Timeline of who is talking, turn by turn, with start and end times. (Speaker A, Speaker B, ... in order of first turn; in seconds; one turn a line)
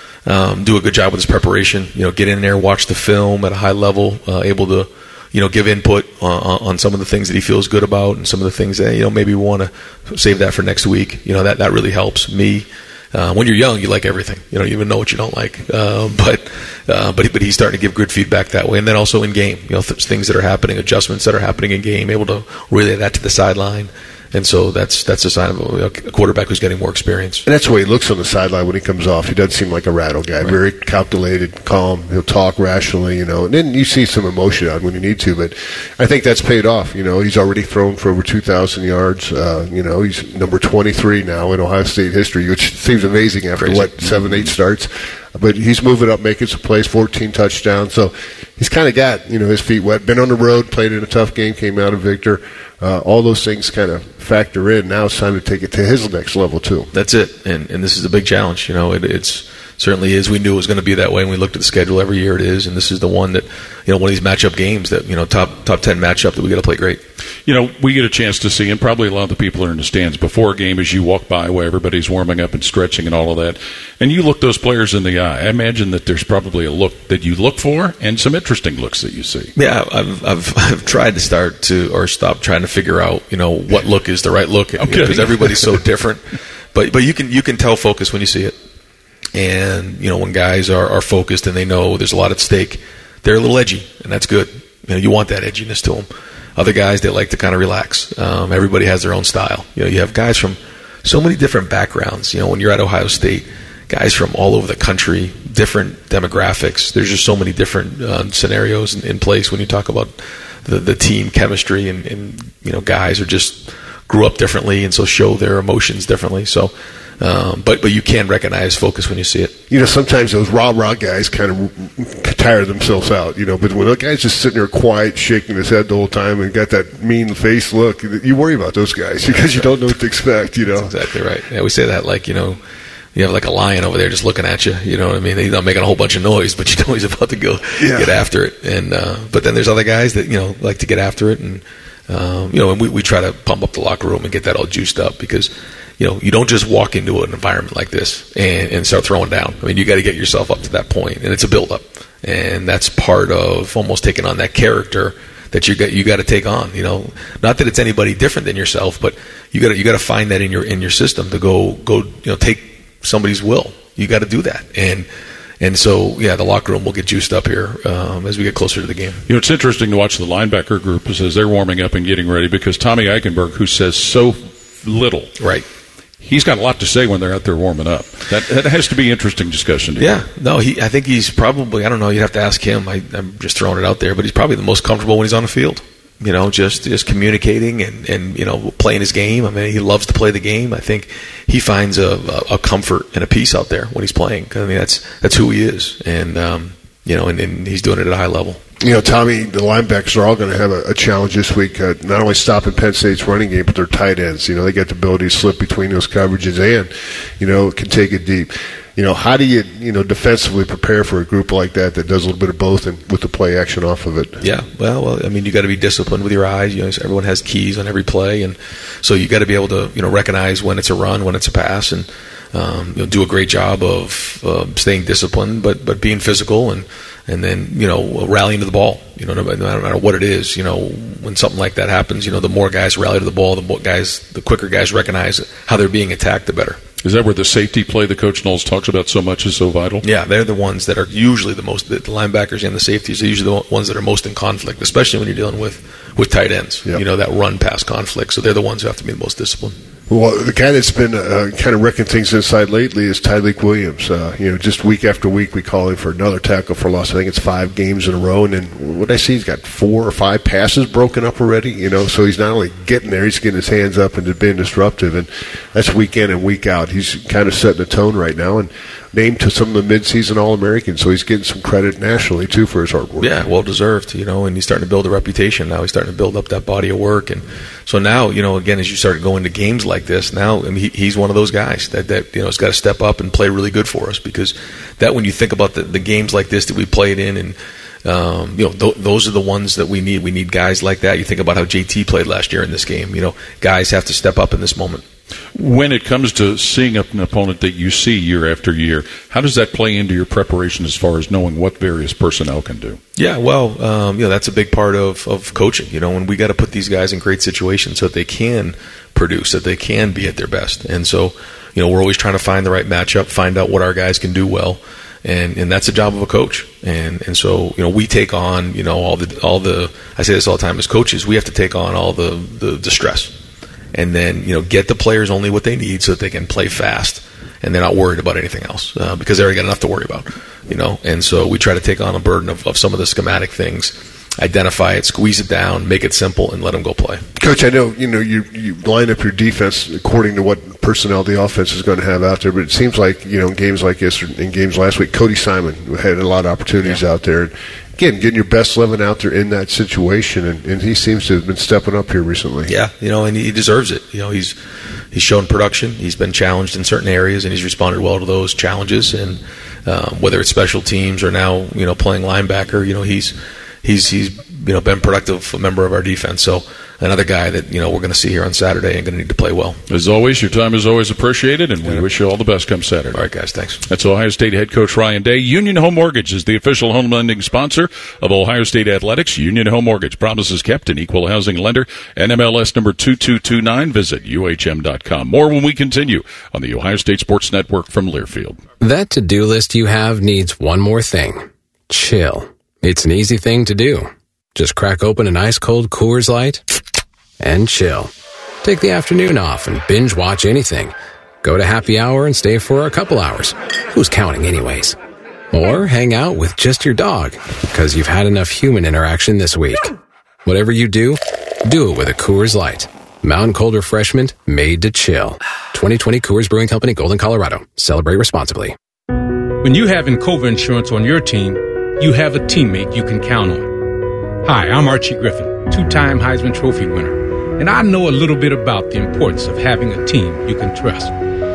Speaker A: 0.2-27.4
Speaker B: 27.4-56.9
Speaker A: 43.6-44.5
Speaker A: 56.9-67.0
Speaker C: 67.5-79.5
Speaker A: 79.5-86.2
Speaker C: 84.8-85.7
Speaker A: 86.7-88.5
Speaker A: 89.3-119.6
Speaker B: 119.7-130.9
Speaker A: 130.8-132.6
Speaker A: 133.1-165.1
Speaker B: 137.8-138.1
Speaker A: 165.6-169.2
Speaker C: 169.3-175.3
Speaker A: 175.4-175.6
Speaker C: 176.2-180.2
Speaker A: 180.0-198.6
Speaker B: 198.8-214.4
Speaker A: 214.4-236.8
Speaker C: 237.0-240.0
Speaker A: 240.0-249.8
Speaker B: 250.1-273.3
Speaker A: 273.2-295.0
Speaker C: 295.5-303.0
Speaker A: 303.2-323.3
Speaker A: 323.9-337.2
Speaker B: 337.4-352.7
Speaker A: 352.7-354.6
Speaker A: 355.1-369.8
Speaker C: 369.9-373.2
Speaker A: 373.1-373.8
Speaker C: 373.9-388.6
Speaker D: 388.8-396.6
Speaker D: 397.4-398.1
Speaker D: 398.6-404.9
Speaker D: 405.5-409.9
Speaker D: 410.4-418.7
Speaker E: 419.6-423.7
Speaker E: 424.4-431.1